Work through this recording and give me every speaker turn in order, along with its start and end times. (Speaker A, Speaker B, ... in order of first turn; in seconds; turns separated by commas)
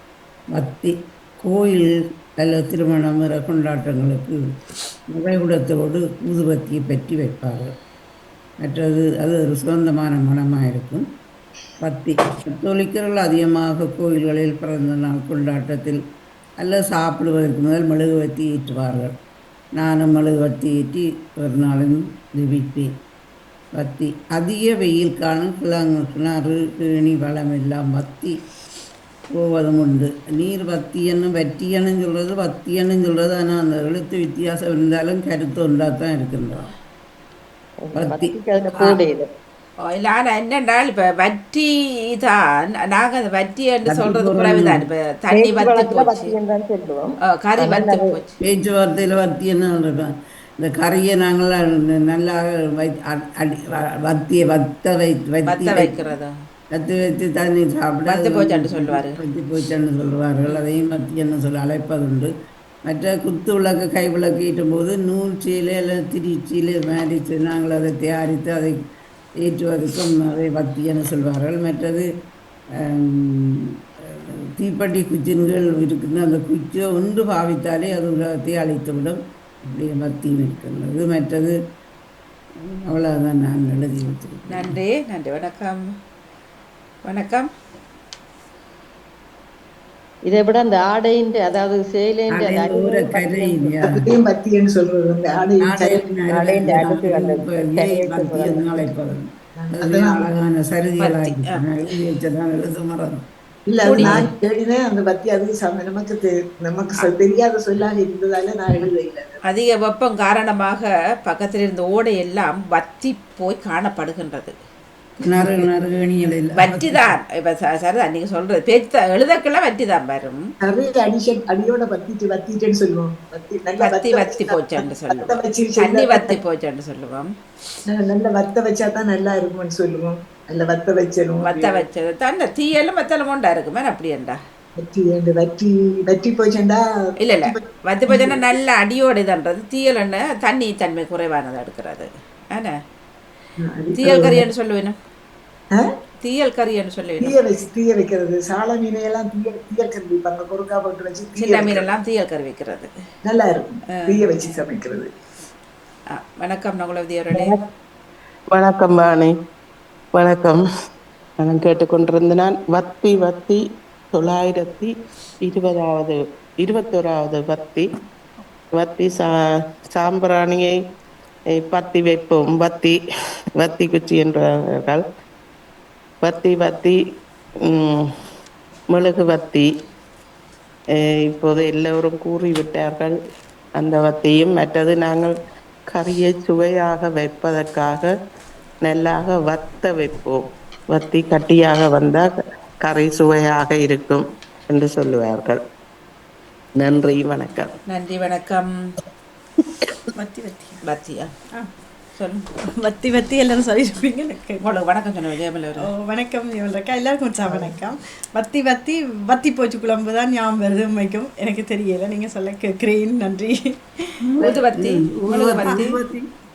Speaker A: 0.6-4.4, Speaker A: 5.1-7.7, Speaker A: 8.6-11.1, Speaker A: 11.8-16.0, Speaker A: 16.6-19.1, Speaker A: 19.8-22.9, Speaker A: 23.8-28.4, Speaker A: 29.3-36.7, Speaker B: 37.9-39.3, Speaker A: 37.9-38.3, Speaker C: 39.9-46.3, Speaker A: 43.9-44.9, Speaker B: 45.3-47.1, Speaker C: 47.3-48.4, Speaker B: 47.6-48.1, Speaker A: 48.4-56.0, Speaker C: 55.5-56.3, Speaker A: 56.7-62.3, Speaker C: 58.1-59.2, Speaker A: 62.9-68.8, Speaker A: 69.4-72.1, Speaker A: 72.8-81.6, Speaker A: 82.8-84.7, Speaker C: 84.5-85.8, Speaker C: 87.0-87.5, Speaker B: 90.3-93.7, Speaker A: 92.3-93.9, Speaker D: 93.8-96.1, Speaker A: 95.6-103.2, Speaker B: 96.3-98.8, Speaker D: 99.6-100.2, Speaker C: 101.0-101.6, Speaker D: 103.7-109.4, Speaker C: 103.8-104.2, Speaker A: 104.0-104.3, Speaker C: 109.5-114.5, Speaker A: 115.2-117.1, Speaker C: 115.3-115.7, Speaker C: 116.6-120.4, Speaker D: 120.6-124.6, Speaker C: 123.8-127.3, Speaker D: 125.1-126.4, Speaker D: 127.9-131.8, Speaker C: 131.4-134.4, Speaker D: 134.8-136.8, Speaker C: 137.2-142.8, Speaker D: 138.1-138.4, Speaker D: 143.6-144.4, Speaker C: 144.0-144.9, Speaker C: 146.2-147.3, Speaker D: 147.2-151.9, Speaker C: 151.4-152.9, Speaker D: 153.2-155.1, Speaker C: 156.1-157.5, Speaker E: 158.5-159.3, Speaker E: 160.2-160.6, Speaker E: 161.4-163.6, Speaker E: 164.1-164.9, Speaker E: 165.4-167.9, Speaker E: 168.8-169.3, Speaker E: 169.9-170.8, Speaker E: 171.5-173.0, Speaker E: 173.6-175.0, Speaker E: 176.2-177.0, Speaker E: 177.7-178.0, Speaker E: 178.9-179.7, Speaker E: 181.0-183.1, Speaker E: 183.8-185.3, Speaker E: 185.9-188.1, Speaker E: 188.8-190.4, Speaker E: 190.9-195.6, Speaker E: 196.8-197.7, Speaker C: 197.9-198.7, Speaker F: 200.2-200.8, Speaker C: 200.9-201.3, Speaker C: 202.2-202.4, Speaker F: 202.8-204.6, Speaker C: 204.6-205.9, Speaker F: 205.8-213.8, Speaker A: 214.3-216.3, Speaker C: 214.4-215.9